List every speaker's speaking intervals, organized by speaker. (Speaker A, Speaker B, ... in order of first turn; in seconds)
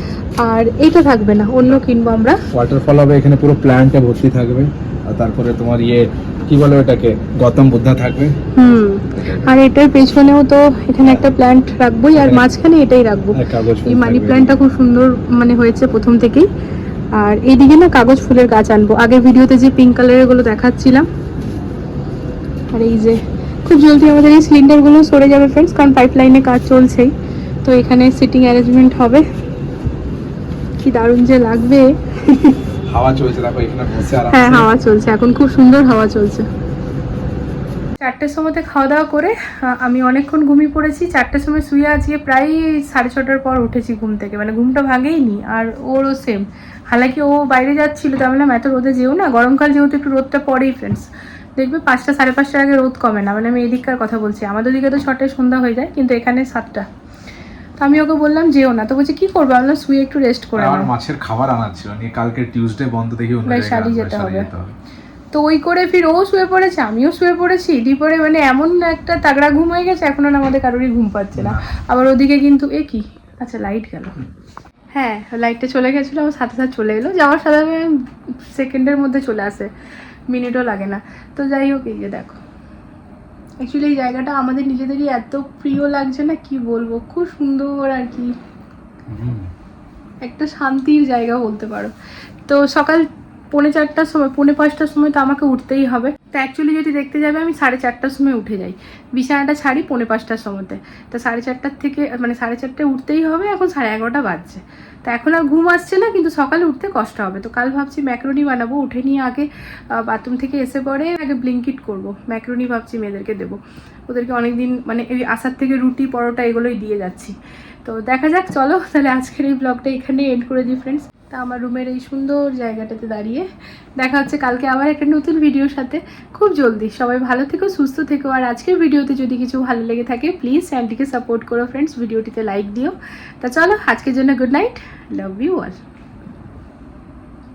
Speaker A: 0.4-2.4, 8.5-16.5, 17.1-21.1, 22.7-27.1, 27.6-29.2, 30.8-32.6, 34.3-36.5, 38.0-56.9, 57.8-60.9, 63.5-64.5, 65.3-74.1, 75.0-77.9, 78.5-79.7, 80.3-82.4, 83.6-88.3, 90.2-91.9, 92.5-123.5, 124.0-135.8
Speaker B: 2.5-9.5, 11.0-11.3, 12.1-12.5, 13.3-14.6, 32.9-34.7, 60.5-64.7, 71.4-71.6, 89.1-89.5